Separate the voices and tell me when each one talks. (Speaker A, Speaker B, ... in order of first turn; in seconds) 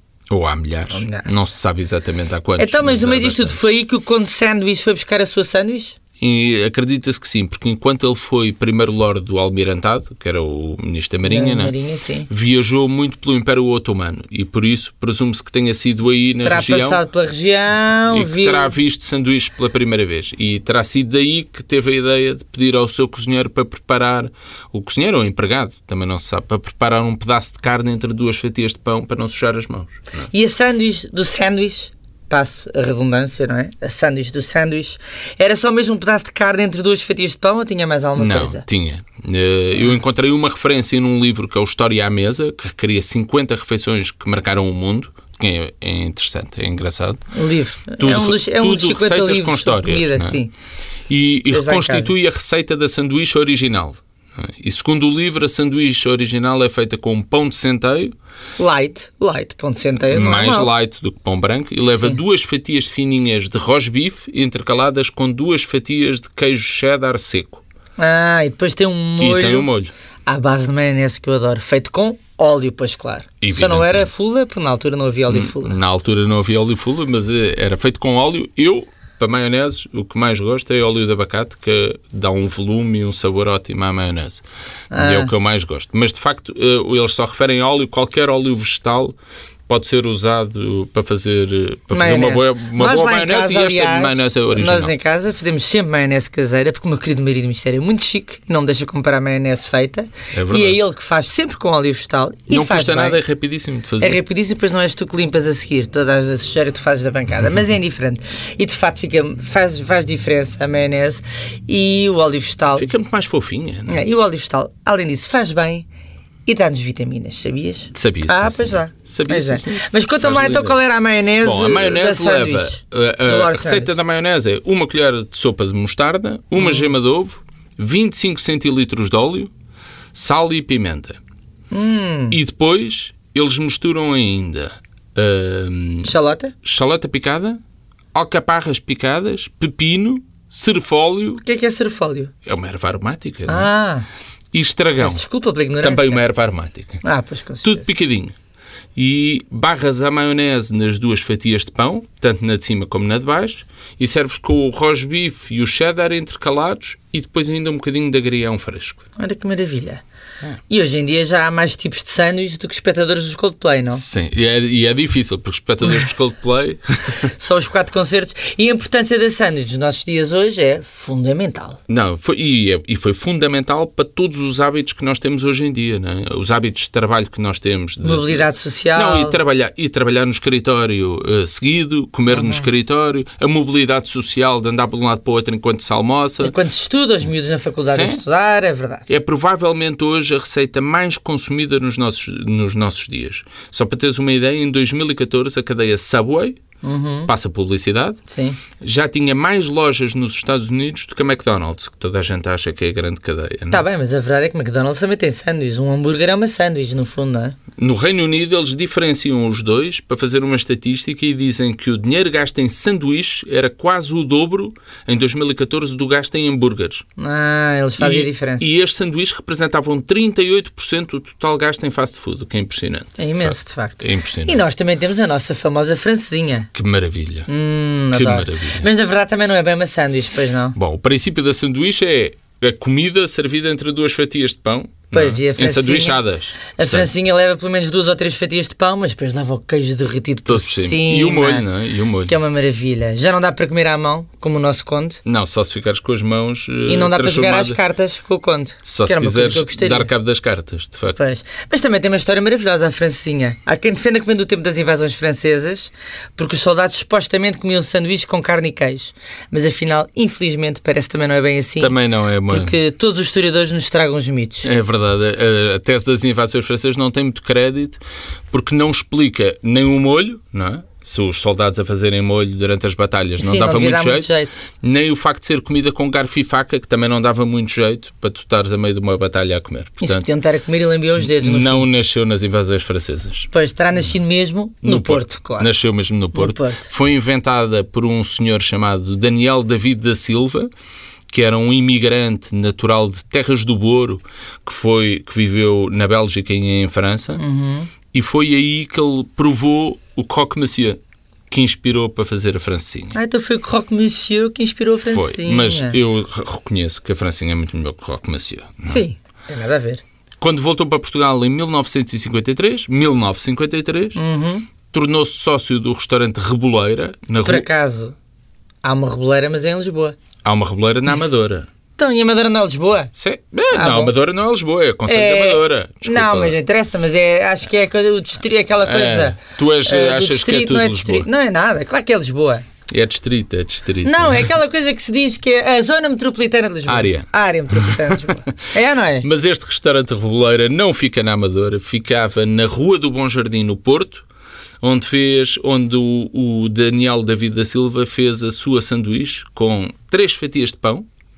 Speaker A: 0.3-3.6, 6.2-11.7, 12.3-17.0, 18.1-30.3, 38.2-47.2, 48.0-50.4, 51.1-58.1, 60.1-67.6, 69.2-69.9, 73.4-74.0, 75.3-89.2, 89.7-94.9, 100.3-100.8, 102.5-104.2, 112.8-114.0, 117.9-120.8, 121.4-129.5, 130.1-131.2, 132.3-136.1, 136.6-137.6, 138.1-141.4, 142.4-143.7, 144.5-145.2, 145.8-147.0, 147.6-148.3, 148.9-159.0, 163.9-167.3, 171.9-186.5, 187.9-188.2, 189.1-196.6, 197.3-198.2, 198.8-203.8, 207.8-217.0, 218.0-224.6, 226.7-227.5, 228.1-228.9, 230.8-237.1, 240.4-242.3, 245.2-247.8, 248.8-251.2, 261.8-262.8, 264.6-274.3, 274.8-280.3, 281.2-283.5, 284.8-290.7, 291.3-297.4, 298.1-301.0, 301.5-303.2, 305.0-309.0, 310.4-314.2, 314.9-317.7, 320.4-321.7, 323.1-326.6, 328.8-331.3, 332.9-334.5, 336.9-338.4, 339.2-344.2, 344.8-351.1
Speaker B: 0.9-1.3, 2.6-6.0, 11.2-12.3, 16.4-18.7, 30.3-38.6, 47.3-50.5, 51.5-52.1, 58.6-60.7, 61.9-62.2, 68.0-69.7, 70.2-75.8, 84.9-85.3, 91.9-103.2, 104.0-112.9, 113.9-115.8, 116.5-123.9, 126.6-126.9, 131.7-132.4, 136.0-136.5, 141.4-142.3, 143.5-144.1, 145.0-146.2, 147.0-147.8, 159.2-160.0, 160.7-164.0, 167.4-171.8, 178.0-179.4, 182.3-182.7, 186.4-189.0, 196.8-197.3, 198.3-198.6, 203.7-207.6, 217.2-218.7, 223.2-226.7, 227.5-230.8, 235.1-236.2, 236.7-241.7, 242.2-245.2, 246.8-250.1, 251.2-262.0, 262.5-264.7, 273.4-274.6, 280.0-281.9, 283.5-285.7, 286.3-286.9, 297.4-297.9, 303.1-306.0, 308.9-310.0, 314.1-314.7, 317.4-318.1, 318.8-320.1, 322.0-323.1, 323.7-324.1, 325.1-332.7, 334.0-339.3